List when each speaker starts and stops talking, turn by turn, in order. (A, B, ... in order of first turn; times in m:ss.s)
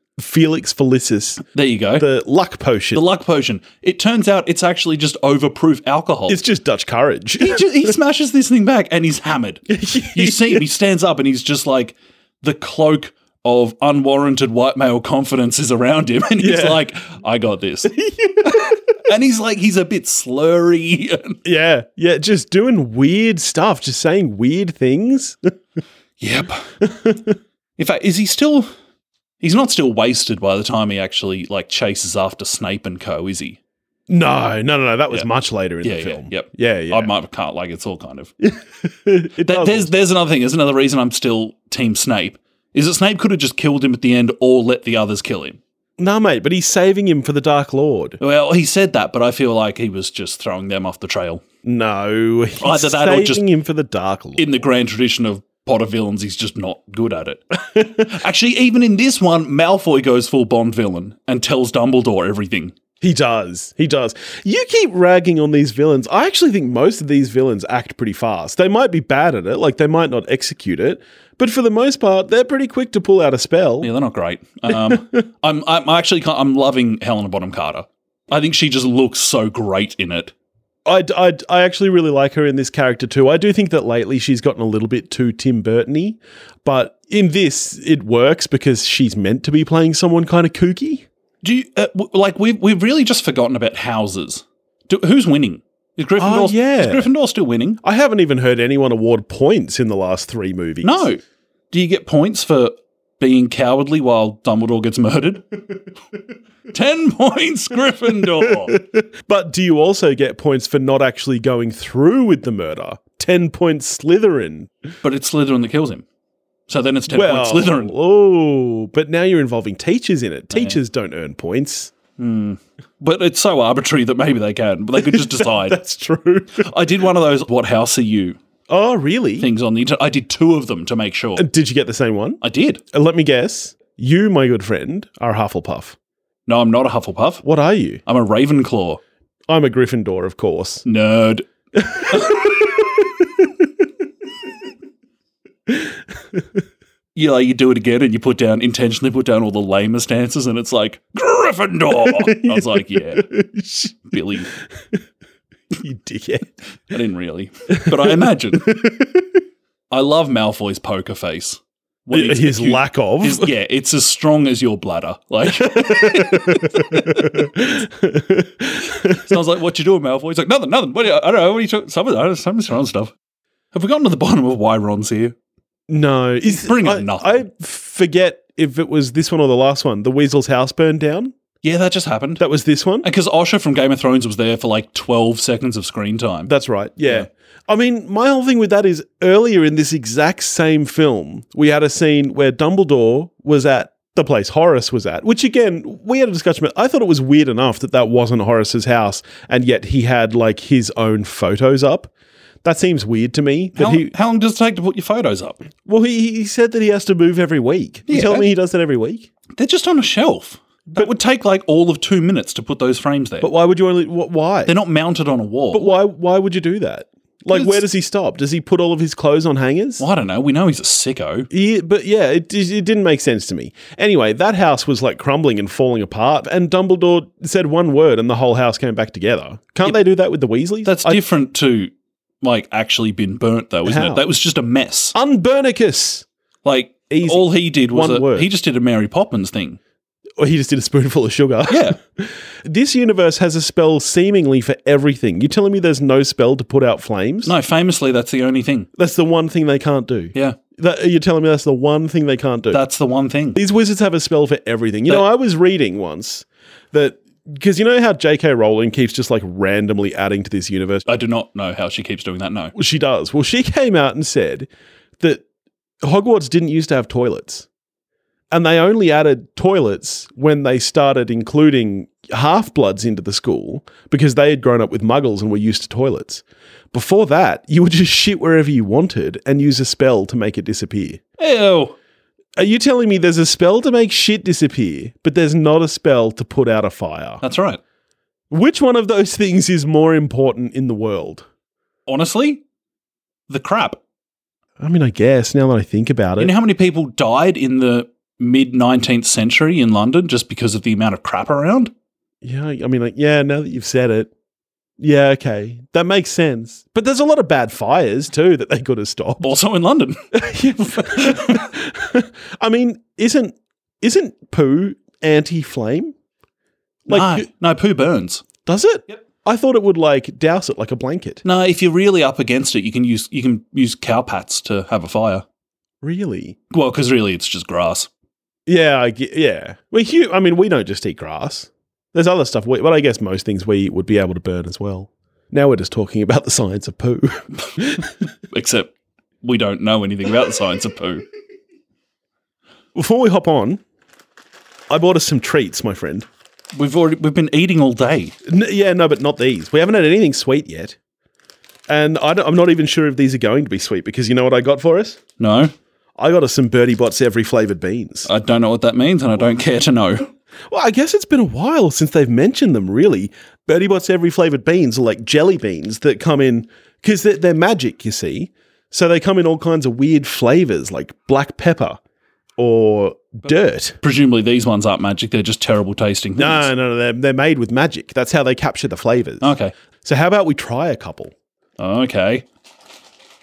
0:00.2-0:01.4 A
0:01.5-0:02.0 B
0:02.0-0:03.0 A
0:02.9-0:06.4 B
0:06.3-0:07.9 A
0:07.4-0:21.4 B
0:09.7-0:10.6 A
0:16.4-0:16.8 A
0:17.8-0:18.8 A
0:21.4-0:25.5 A
0:26.2-0:26.6 B
0:26.8-0:27.4 A
0:27.8-0:28.7 B
0:29.4-0:33.6 B
0:34.1-0:37.1 A
0:35.8-0:38.3 B
0:38.4-0:39.9 A
0:39.4-0:45.6 B
0:46.0-0:48.2 A
0:48.2-0:51.4 B
0:51.6-0:54.5 A
0:52.6-0:53.4 B
0:54.4-1:02.7 B
0:57.7-0:58.0 A
1:03.0-1:13.9 A
1:13.8-1:20.3 B
1:14.7-1:15.2 A
1:20.8-1:31.0 A
1:31.4-1:37.8 B
1:36.2-1:37.1 A
1:37.8-1:41.1 A
1:40.8-1:45.5 B
1:46.7-1:48.7 B
1:48.5-1:54.7 A
1:55.0-1:56.0 B
1:56.7-1:57.9 B
1:57.1-2:01.9 A
2:00.5-2:00.8 B
2:02.2-2:05.8 B
2:05.0-2:06.7 A
2:06.6-2:08.4 B
2:08.7-2:09.5 A
2:09.4-2:11.4 B
2:11.4-2:12.4 A
2:12.4-2:12.8 B
2:12.9-2:16.0 A
2:16.5-2:17.4 B
2:17.4-2:18.0 A
2:18.0-2:19.0 B
2:19.5-2:20.8 A
2:20.8-2:21.5 B
2:21.8-2:23.6 A
2:22.1-2:22.5 B
2:25.7-2:26.4 A
2:27.2-2:33.3 B
2:32.0-2:34.0 A
2:34.1-2:34.5 B
2:35.7-2:36.5 A
2:36.9-2:38.8 B
2:37.8-2:39.4 A
2:39.9-2:47.5 B
2:42.1-2:43.5 A
2:45.6-2:49.3 A
2:49.1-2:53.1 B
2:53.7-2:55.3 B
2:55.9-3:01.3 A
2:56.5-2:57.4 B
3:01.6-3:02.4 B
3:02.4-3:03.1 A
3:03.0-3:06.5 B
3:06.5-3:22.1 A
3:22.6-3:24.1 A
3:23.7-3:25.6 B
3:25.8-3:29.3 A
3:28.1-3:28.4 B
3:29.6-3:33.5 B
3:33.4-3:34.7 A
3:34.6-3:36.0 B
3:35.7-3:40.0 A
3:37.5-3:37.8 B
3:40.0-3:41.5 B
3:41.5-3:51.2 A
3:50.8-3:55.1 B
3:53.8-3:54.2 A
3:55.1-3:56.2 A
3:56.6-3:59.8 B
3:57.1-3:58.5 A
4:00.4-4:07.5 A
4:01.7-4:02.0 B
4:07.4-4:08.9 B
4:09.0-4:12.8 A
4:12.7-4:13.6 B
4:13.5-4:21.0 A
4:21.1-4:22.7 B
4:22.7-4:24.7 A
4:26.0-4:27.7 A
4:28.5-4:41.2 A
4:41.4-4:41.9 B
4:42.6-4:47.4 A
4:47.4-4:47.8 B
4:48.5-4:51.4 A
4:52.1-4:52.6 B
4:53.5-4:54.0 B
4:54.8-4:56.5 A
4:56.4-5:01.9 B
5:02.4-5:04.3 A
5:05.0-5:09.5 A
5:09.4-5:10.3 B
5:10.3-5:16.1 A
5:10.9-5:11.7 B
5:17.0-5:17.5 A
5:17.1-5:18.4 B
5:18.6-5:21.4 A
5:21.4-5:25.4 B
5:26.0-5:26.6 A
5:26.7-5:28.1 B
5:28.7-5:38.1 A
5:38.5-5:41.2 B
5:42.9-5:43.8 A
5:44.9-5:46.2 A
5:46.7-5:48.3 B
5:48.4-5:51.0 A
5:51.9-5:55.2 A
5:55.4-5:55.7 B
5:56.2-5:58.3 A
5:58.2-6:00.3 B
6:00.7-6:12.0 A
6:12.6-6:14.0 A
6:14.0-6:16.7 B
6:16.4-6:19.5 A
6:19.4-6:19.7 B
6:20.0-6:21.3 A
6:21.8-6:22.4 B